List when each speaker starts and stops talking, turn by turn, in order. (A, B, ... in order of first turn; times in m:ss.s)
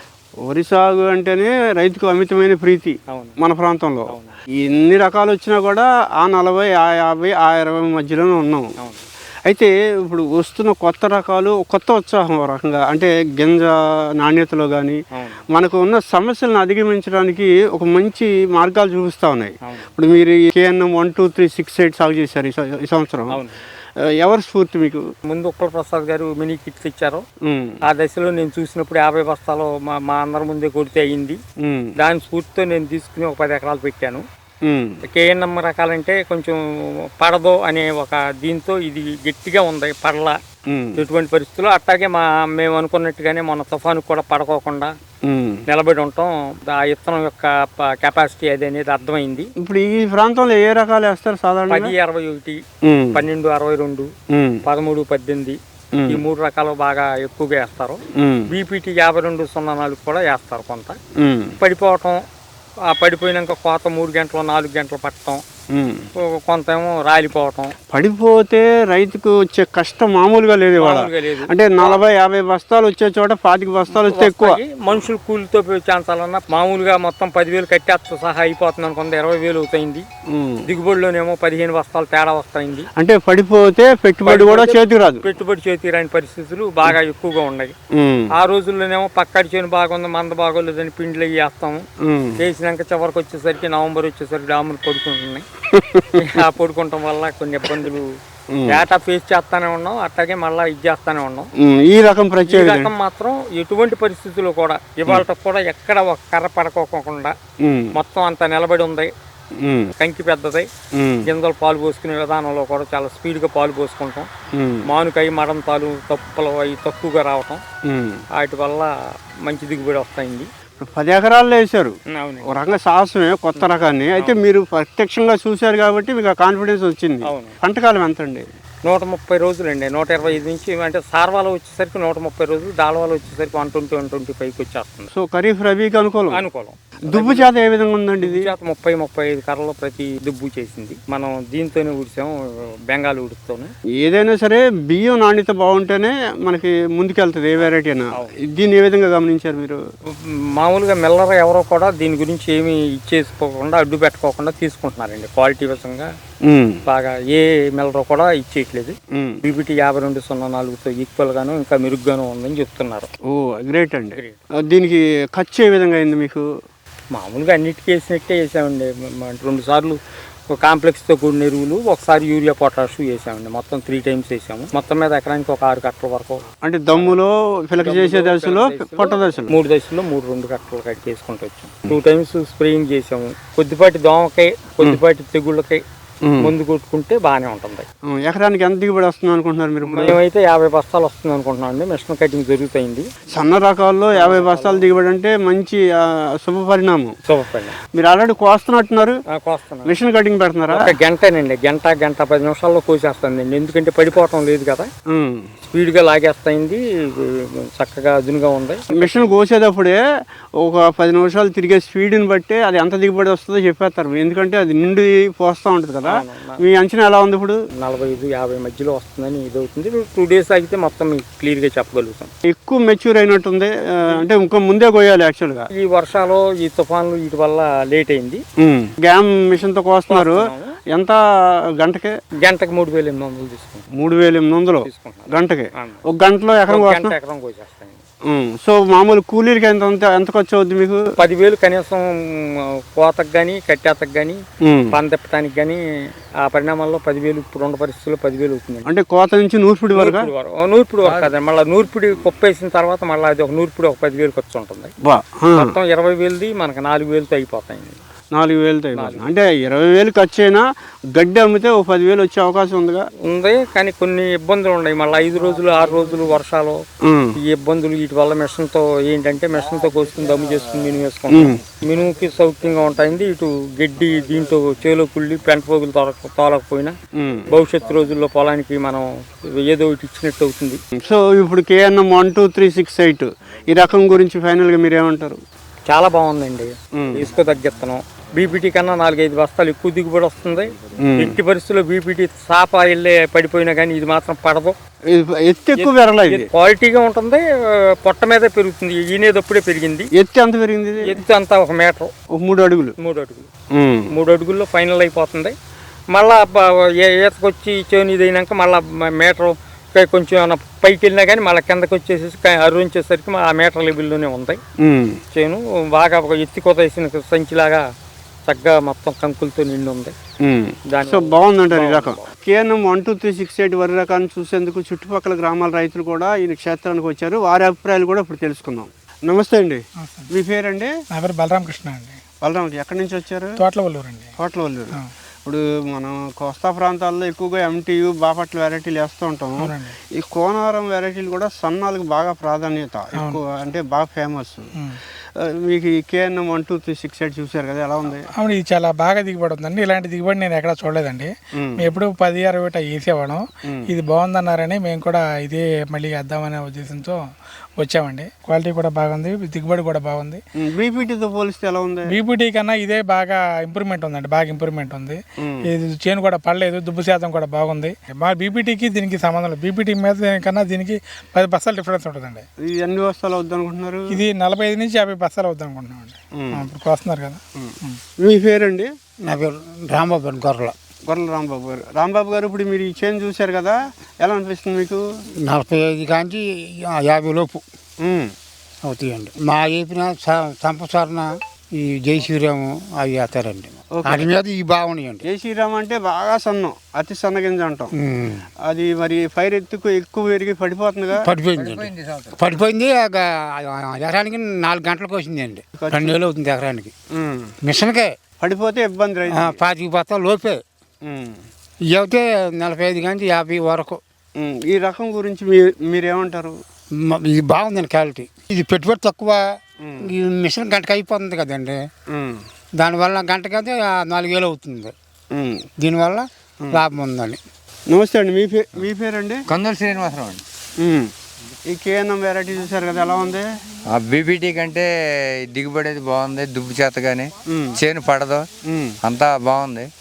0:00.4-0:04.1 A
0:03.1-0:03.4 B
0:04.1-0:04.4 B
0:04.7-0:08.7 A
0:08.8-0:09.1 B
0:09.5-0:15.0 A
0:15.1-0:15.4 B
0:15.5-0:23.4 A
0:23.3-0:23.6 B
0:24.2-0:25.0 A
0:25.3-0:27.2 B
0:27.4-0:27.8 A
0:27.9-0:31.4 B
0:31.6-0:31.9 A
0:32.0-0:34.2 B
0:34.6-0:35.0 A
0:35.1-0:36.6 B
0:37.2-0:40.4 B
0:40.7-0:41.0 A
0:41.0-0:44.9 B
0:45.2-0:45.6 A
0:45.7-0:49.5 B
0:49.6-0:51.9 A
0:51.7-0:52.6 B
0:52.9-0:53.2 A
0:53.2-0:54.1 B
0:54.3-0:54.6 A
0:54.7-0:58.0 B
0:56.0-0:56.2 A
0:58.2-0:58.5 A
0:58.5-1:01.0 B
1:01.2-1:01.6 A
1:01.6-1:02.2 B
1:02.9-1:05.4 B
1:05.7-1:06.1 A
1:06.3-1:07.7 B
1:07.9-1:14.6 A
1:10.8-1:12.0 B
1:13.9-1:20.0 B
1:20.3-1:20.6 A
1:20.7-1:22.9 B
1:23.0-1:25.2 A
1:24.3-1:27.7 B
1:27.9-1:28.3 A
1:28.4-1:31.8 B
1:32.0-1:32.4 A
1:32.4-1:35.4 B
1:35.7-1:36.2 A
1:36.2-1:38.1 B
1:38.5-1:38.8 A
1:38.7-1:41.5 B
1:41.6-1:42.9 A
1:42.5-1:47.3 B
1:47.6-1:47.9 A
1:48.0-1:49.1 B
1:49.6-1:49.9 A
1:50.0-1:50.7 B
1:51.0-1:51.3 A
1:51.2-1:54.3 B
1:54.5-1:54.9 A
1:54.9-1:57.6 B
1:57.9-1:58.2 A
1:58.4-1:58.9 B
1:59.5-2:00.5 B
2:00.8-2:02.0 A
2:02.1-2:02.6 B
2:02.5-2:08.4 A
2:03.6-2:04.4 B
2:07.3-2:07.6 B
2:08.9-2:15.1 B
2:15.1-2:16.4 A
2:16.3-2:17.5 B
2:17.1-2:18.5 A
2:18.2-2:22.3 B
2:22.9-2:23.7 B
2:24.0-2:29.8 A
2:27.6-2:28.4 B
2:30.6-2:36.1 B
2:36.4-2:36.8 A
2:36.9-2:43.1 B
2:39.1-2:39.4 A
2:43.3-2:46.5 A
2:47.2-2:50.0 B
2:50.5-2:56.4 B
2:56.6-2:59.5 A
2:56.9-2:57.2 B
2:57.8-3:05.8 B
3:06.2-3:06.5 A
3:06.4-3:07.9 B
3:08.1-3:10.2 A
3:09.9-3:13.1 B
3:13.3-3:15.8 A
3:14.2-3:14.9 B
3:16.4-3:17.2 A
3:17.3-3:17.8 B
3:17.9-3:19.2 A
3:19.3-3:19.9 B
3:19.9-3:20.8 A
3:20.7-3:24.9 B
3:25.1-3:25.5 A
3:25.7-3:29.3 B
3:29.0-3:30.0 A
3:30.6-3:37.6 A
3:36.1-3:36.6 B
3:37.8-3:42.3 B
3:42.5-3:45.7 A
3:45.8-3:48.4 B
3:48.6-3:51.2 A
3:50.1-3:50.7 B
3:51.8-3:52.1 A
3:52.4-3:53.9 B
3:54.0-3:57.1 A
3:54.8-3:56.0 B
3:56.7-3:58.0 B
3:58.3-4:01.0 A
4:01.2-4:02.0 B
4:03.0-4:04.4 B
4:04.6-4:05.0 A
4:04.9-4:05.8 B
4:06.5-4:08.9 B
4:08.9-4:10.3 A
4:10.0-4:14.9 B
4:11.0-4:11.3 C
4:15.0-4:15.7 A
4:15.6-4:18.0 B
4:18.3-4:20.6 A
4:19.0-4:19.3 B
4:21.2-4:23.0 A
4:23.3-4:26.8 B
4:27.1-4:27.4 A
4:27.4-4:36.9 B
4:31.3-4:31.6 A
4:37.2-4:37.5 A
4:37.5-4:39.1 B
4:39.6-4:40.8 B
4:41.0-4:45.4 A
4:45.9-4:54.7 B
4:47.0-4:47.3 A
4:51.0-4:51.4 A
4:55.1-4:56.5 A
4:55.8-4:57.4 B
4:58.0-5:00.1 B
5:00.2-5:01.1 A
5:01.0-5:02.1 B
5:02.3-5:03.0 A
5:03.0-5:03.5 B
5:03.7-5:04.1 A
5:04.1-5:05.6 B
5:06.1-5:14.6 B
5:14.8-5:15.2 A
5:15.3-5:17.8 B
5:18.5-5:20.1 B
5:20.4-5:30.9 A
5:20.9-5:22.3 B
5:30.0-5:30.3 D
5:31.1-5:32.2 D
5:32.4-5:33.6 A
5:33.6-5:34.3 D
5:34.4-5:44.7 A
5:39.6-5:40.0 D
5:45.5-5:48.3 A
5:48.3-5:57.2 D
5:51.6-5:51.9 A
5:57.8-6:00.4 D
6:00.6-6:02.2 A
6:02.1-6:12.4 D
6:12.6-6:14.2 A
6:14.1-6:18.0 D
6:16.4-6:16.7 A
6:17.6-6:18.9 A
6:19.2-6:20.8 E
6:21.1-6:25.0 A
6:25.4-6:27.6 E
6:28.0-6:28.3 A
6:28.8-6:35.2 E
6:34.0-6:34.3 A
6:35.2-6:37.9 A
6:38.0-6:38.4 E
6:38.7-6:41.2 A
6:41.2-6:46.9 E
6:41.5-6:42.4 C
6:45.8-6:46.2 A
6:47.2-6:47.5 A
6:47.6-6:48.2 E
6:48.4-6:49.6 A
6:49.3-6:50.6 E
6:51.0-6:51.4 A
6:51.9-6:54.0 E
6:54.4-6:56.6 A
6:57.0-6:59.4 E
6:59.8-7:00.1 A
7:00.0-7:01.9 E
7:02.1-7:02.4 A
7:02.8-7:04.9 E
7:05.3-7:05.7 A
7:05.8-7:07.4 E
7:07.9-7:09.4 A
7:09.5-7:10.4 C
7:10.8-7:11.1 A
7:11.7-7:13.5 A
7:13.9-7:18.5 C
7:17.5-7:17.8 A
7:18.7-7:18.9 A
7:19.0-7:19.9 C